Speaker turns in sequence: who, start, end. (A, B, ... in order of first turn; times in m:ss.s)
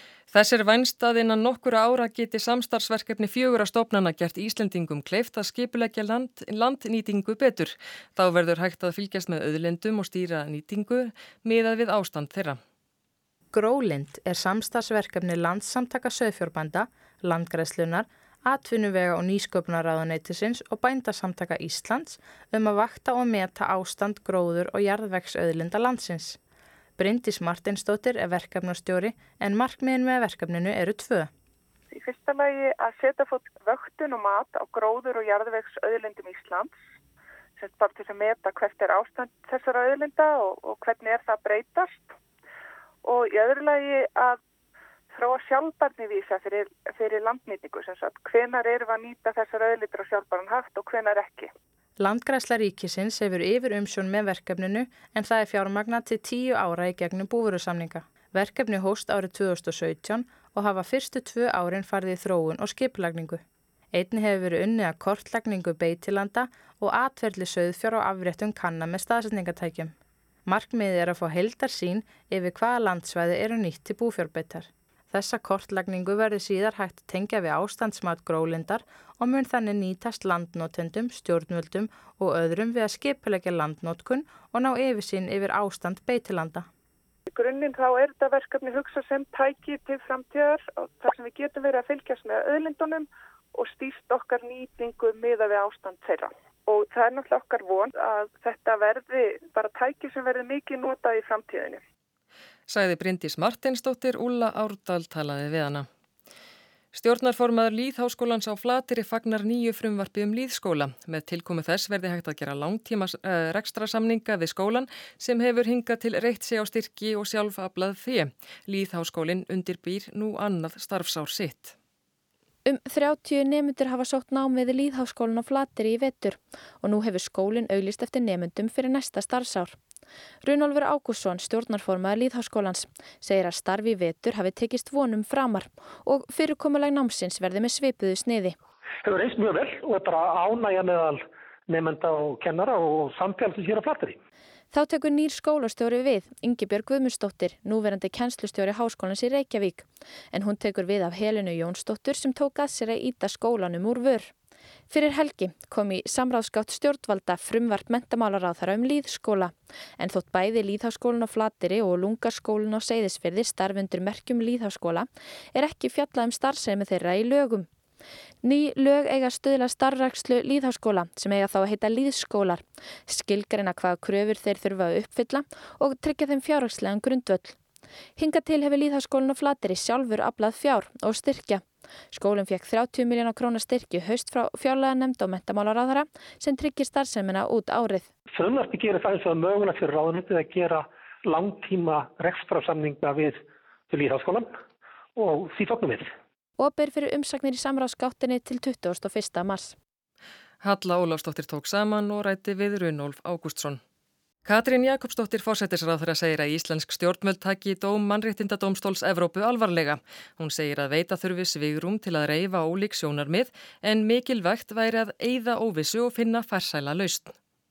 0:00.3-0:12.6 A
0:13.5-0:26.4 B
0:27.0-0:31.3 B
0:31.9-0:36.8 C
0:37.6-0:42.1 C
0:43.0-0:44.4 C
0:45.1-0:51.5 C
0:52.0-1:03.4 B
1:03.9-1:09.9 B
1:10.5-1:26.7 B
1:27.3-1:41.8 C
1:42.7-1:45.9 A
1:46.9-2:01.8 A
2:02.6-2:09.8 D
2:10.4-2:18.6 D
2:19.0-2:24.2 E
2:24.7-2:34.3 D
2:34.9-2:47.7 D
2:48.4-2:57.6 D
2:58.2-3:08.1 D
3:08.3-3:14.5 E
3:15.2-3:16.1 E
3:16.6-3:19.8 D
3:20.6-3:23.8 A
3:24.5-3:37.4 A